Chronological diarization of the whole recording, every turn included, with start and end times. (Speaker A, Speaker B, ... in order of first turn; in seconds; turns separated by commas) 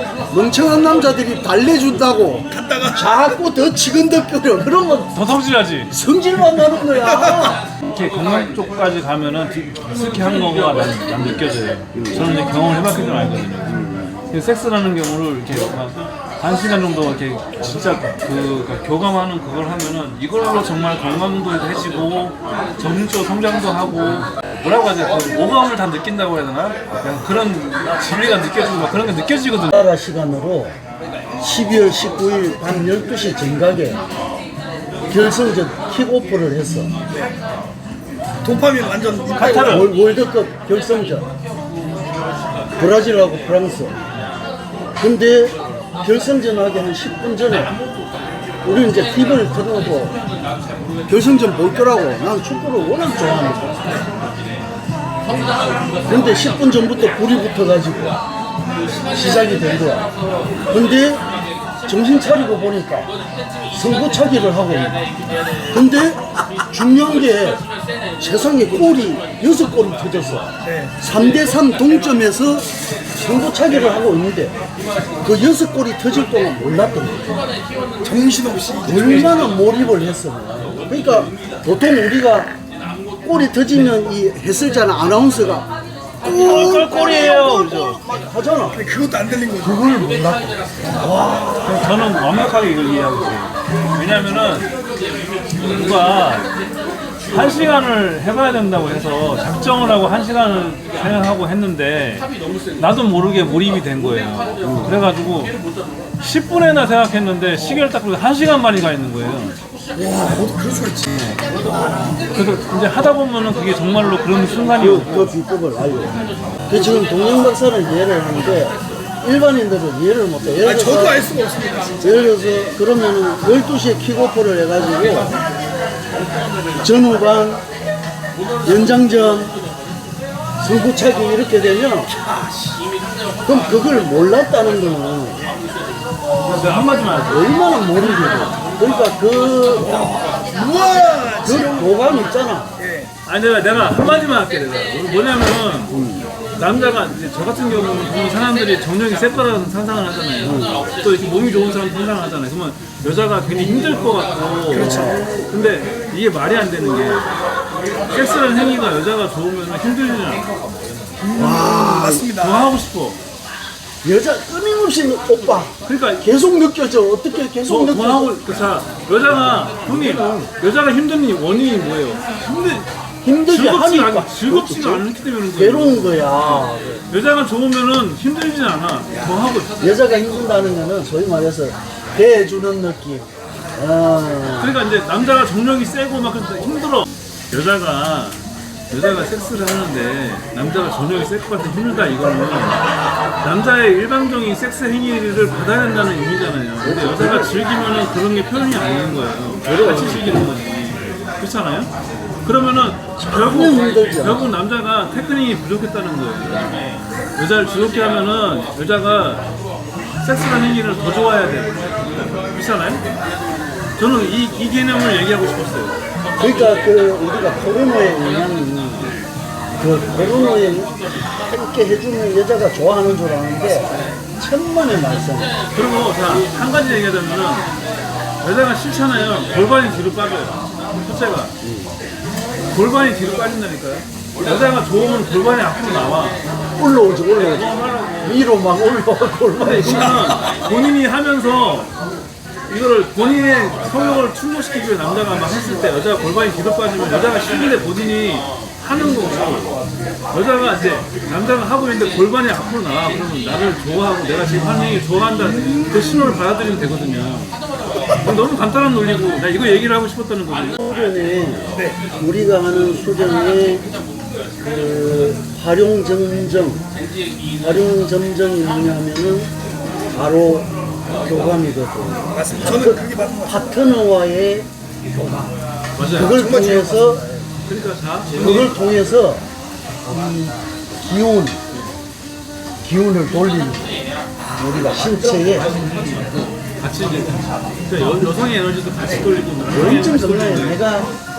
Speaker A: 0.3-5.2, Speaker B: 2.5-3.1, Speaker C: 5.2-5.9, Speaker A: 5.9-7.6, Speaker C: 7.9-29.8, Speaker A: 11.9-12.3, Speaker A: 13.7-14.1, Speaker A: 29.7-30.7, Speaker A: 31.4-34.0, Speaker A: 35.1-36.9, Speaker B: 38.4-39.9, Speaker C: 39.4-39.9, Speaker A: 39.6-41.3, Speaker A: 42.8-44.0, Speaker A: 45.0-47.7, Speaker A: 48.6-50.2, Speaker A: 51.1-53.8, Speaker A: 56.1-58.2, Speaker A: 59.1-60.1, Speaker A: 60.7-61.2, Speaker A: 61.9-63.1, Speaker A: 63.7-65.0, Speaker A: 65.7-67.6, Speaker A: 68.2-70.5, Speaker B: 70.6-70.9, Speaker A: 71.0-74.5, Speaker A: 75.2-77.4, Speaker B: 78.0-79.5, Speaker A: 78.8-82.5, Speaker A: 83.2-85.7, Speaker A: 86.2-88.8, Speaker C: 86.2-88.0, Speaker B: 88.7-89.8, Speaker A: 89.6-91.6, Speaker C: 91.2-94.7, Speaker C: 95.6-96.5, Speaker C: 97.3-105.5, Speaker A: 104.6-104.9, Speaker C: 106.2-109.6, Speaker B: 110.0-112.2, Speaker C: 112.3-115.3, Speaker A: 114.8-121.3, Speaker B: 120.6-122.2, Speaker A: 122.0-125.3, Speaker A: 126.8-127.6, Speaker A: 128.6-129.5, Speaker A: 130.6-132.1, Speaker B: 132.2-132.8, Speaker A: 133.4-135.4, Speaker C: 136.5-138.2, Speaker A: 137.3-140.0, Speaker B: 139.8-142.1, Speaker A: 141.4-142.7, Speaker B: 142.8-143.1, Speaker C: 143.3-145.9, Speaker A: 145.9-146.3, Speaker C: 146.6-157.3, Speaker A: 150.4-150.8, Speaker A: 154.7-155.4, Speaker B: 154.7-155.3, Speaker C: 158.1-160.5, Speaker B: 161.2-162.8, Speaker A: 161.3-162.3, Speaker C: 162.3-163.2, Speaker A: 164.0-168.4, Speaker C: 165.8-166.3, Speaker C: 167.7-172.8, Speaker A: 169.2-170.5, Speaker A: 173.2-177.0, Speaker C: 173.5-179.8, Speaker A: 179.8-184.7, Speaker C: 184.6-192.8, Speaker C: 193.4-201.9, Speaker A: 196.8-197.5, Speaker A: 199.7-200.4, Speaker C: 202.4-206.8, Speaker A: 203.2-204.4, Speaker C: 207.4-209.5, Speaker C: 210.2-213.0, Speaker C: 214.0-216.0, Speaker A: 216.4-219.2, Speaker A: 219.8-225.6, Speaker C: 225.7-227.7, Speaker C: 228.4-231.5, Speaker A: 231.6-231.9, Speaker C: 232.7-236.4, Speaker A: 236.8-237.7, Speaker C: 237.3-238.5, Speaker A: 238.2-240.3, Speaker C: 239.6-241.9, Speaker C: 242.7-249.8, Speaker C: 250.3-257.6, Speaker C: 258.1-260.8, Speaker A: 260.8-263.9, Speaker A: 264.6-266.8, Speaker A: 267.6-269.5, Speaker A: 270.1-270.7, Speaker A: 271.2-275.5, Speaker B: 272.3-273.6, Speaker C: 276.0-276.4, Speaker A: 276.1-277.4, Speaker B: 276.2-277.2, Speaker C: 277.6-278.7, Speaker A: 278.3-279.4, Speaker A: 280.1-281.6, Speaker A: 282.8-283.9, Speaker A: 284.6-285.7, Speaker C: 285.3-290.8, Speaker A: 289.7-291.1